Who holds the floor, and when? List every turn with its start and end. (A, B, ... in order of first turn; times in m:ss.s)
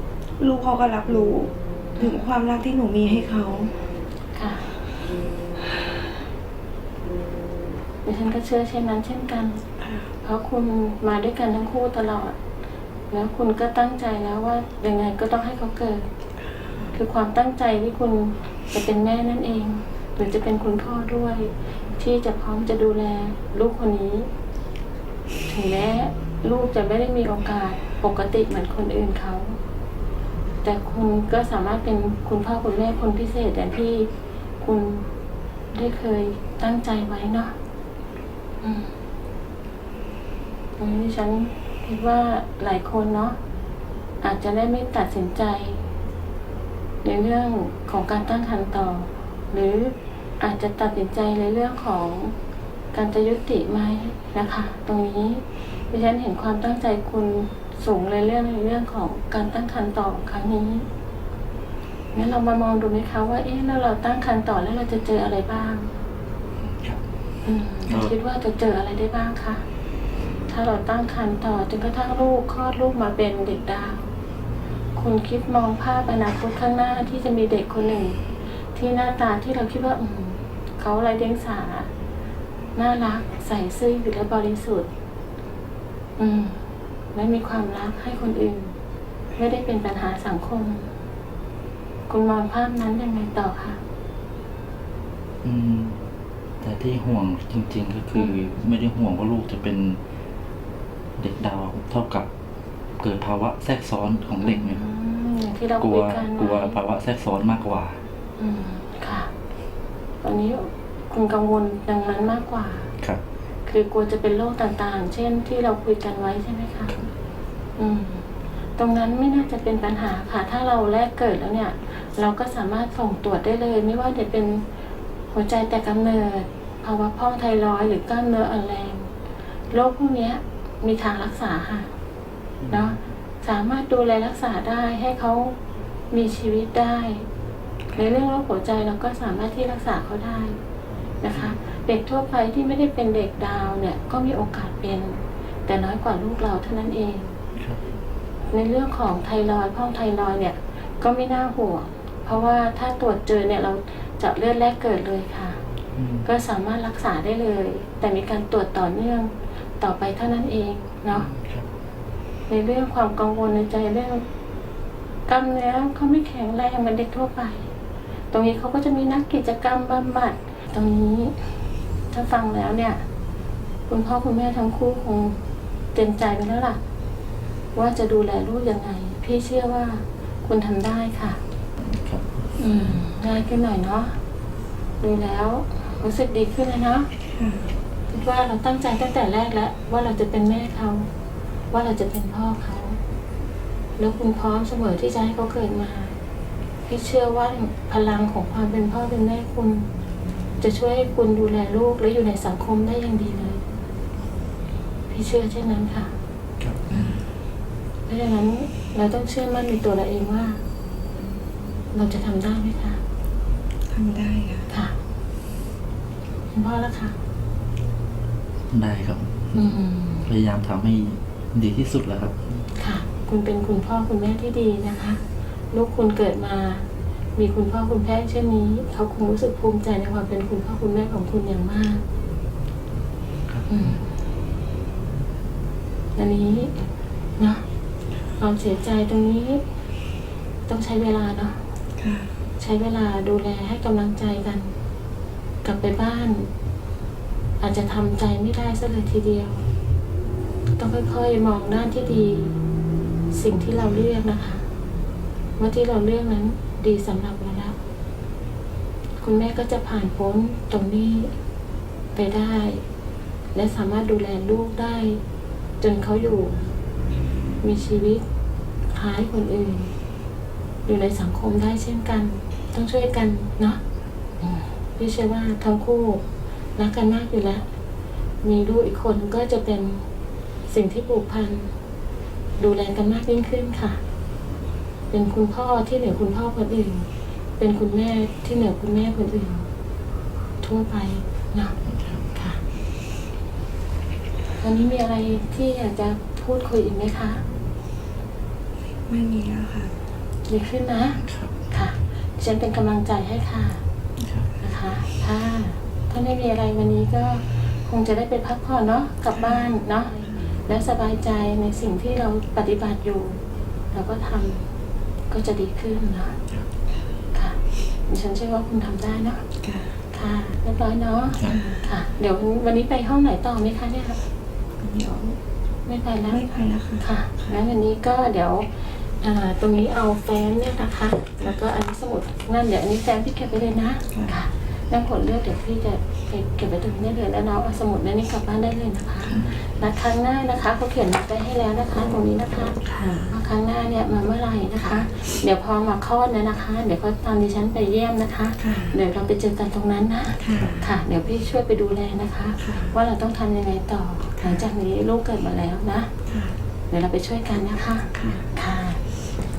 0:00.4-0:03.8 A
0:04.3-0:04.7 B
0:08.0-0:09.6 B
0:09.8-0:10.1 A
0:10.2-0:12.4 B
0:13.1-0:16.1 B
0:16.9-0:24.3 B
0:25.5-0:29.6 B
0:30.6-0:35.1 B
0:35.7-0:37.6 B
0:38.6-0:38.9 B
0:40.8-0:43.4 B
0:44.2-0:45.8 B
0:47.0-0:52.4 B
0:52.9-1:00.9 B
1:02.1-1:06.0 B
1:06.6-1:07.0 C
1:07.4-1:09.6 B
1:07.9-1:08.1 C
1:10.5-1:14.1 B
1:15.0-1:18.2 B
1:18.7-1:21.9 B
1:22.8-1:24.9 B
1:26.2-1:26.6 B
1:27.1-1:28.7 B
1:29.4-1:30.9 B
1:32.1-1:33.8 B
1:35.4-1:36.1 C
1:36.6-1:40.0 C
1:38.2-1:38.4 B
1:41.2-1:42.3 C
1:43.0-1:44.8 C
1:44.4-1:46.8 B
1:45.8-1:48.0 C
1:48.4-1:49.3 B
1:50.2-1:52.9 B
1:53.7-1:56.9 B
1:57.8-2:04.7 B
2:05.3-2:09.1 B
2:09.7-2:11.9 B
2:12.6-2:13.0 C
2:12.7-2:15.6 B
2:16.1-2:17.3 B
2:17.9-2:20.6 B
2:21.2-2:27.4 B
2:27.6-2:27.9 C
2:28.5-2:35.6 B
2:35.9-2:36.3 C
2:36.2-2:41.3 B
2:41.1-2:41.7 C
2:42.5-2:44.3 B
2:45.3-2:47.7 B
2:48.3-2:51.5 B
2:52.1-2:53.0 B
2:53.9-2:55.4 B
2:55.9-2:56.8 B
2:57.8-3:01.4 B
3:01.8-3:03.0 C
3:02.6-3:04.2 B
3:05.0-3:07.1 B
3:07.4-3:07.7 A
3:08.1-3:11.1 B
3:11.7-3:13.0 B
3:14.0-3:16.2 B
3:16.9-3:19.9 B
3:20.6-3:23.6 B
3:25.1-3:26.1 B
3:26.6-3:27.1 C
3:28.1-3:30.6 B
3:31.9-3:33.0 B
3:33.9-3:34.7 A
3:34.7-3:35.0 B
3:36.5-3:37.2 B
3:38.7-3:42.6 C
3:39.6-3:40.3 B
3:42.8-3:52.0 B
3:53.5-3:54.0 C
3:53.7-3:54.0 B
3:56.2-3:56.9 B
3:57.4-3:57.6 B
3:58.4-3:59.6 B
4:00.7-4:01.6 B
4:02.0-4:02.3 A
4:02.6-4:04.7 B
4:05.6-4:06.5 B
4:07.6-4:09.7 B
4:10.8-4:12.6 B
4:13.3-4:14.6 B
4:15.6-4:17.8 B
4:19.2-4:21.3 B
4:22.2-4:22.8 B
4:23.5-4:25.2 B
4:25.8-4:26.6 B
4:27.6-4:28.2 B
4:28.9-4:29.9 B
4:30.8-4:33.8 B
4:34.4-4:36.2 B
4:36.8-4:37.6 B
4:38.4-4:40.1 B
4:40.7-4:41.7 B
4:42.6-4:44.0 B
4:45.1-4:49.7 B
4:50.6-4:51.8 B
4:51.9-4:52.2 C
4:52.3-4:52.6 B
4:54.6-4:57.4 B
4:59.1-4:59.9 A
5:00.5-5:03.8 B
5:01.2-5:01.5 C
5:04.2-5:04.5 C
5:04.6-5:13.4 B
5:13.9-5:14.7 B
5:15.3-5:16.4 B
5:17.3-5:19.4 B
5:19.6-5:19.9 A
5:20.1-5:24.2 B
5:21.4-5:21.8 A
5:24.8-5:25.4 A
5:25.9-5:26.4 B
5:26.3-5:27.0 A
5:27.0-5:56.1 B
5:42.9-5:43.3 A
5:48.6-5:49.0 A
5:50.4-5:50.8 A
5:52.6-5:52.9 A
5:56.3-5:56.6 A
5:56.9-5:59.0 B
5:58.2-5:58.4 A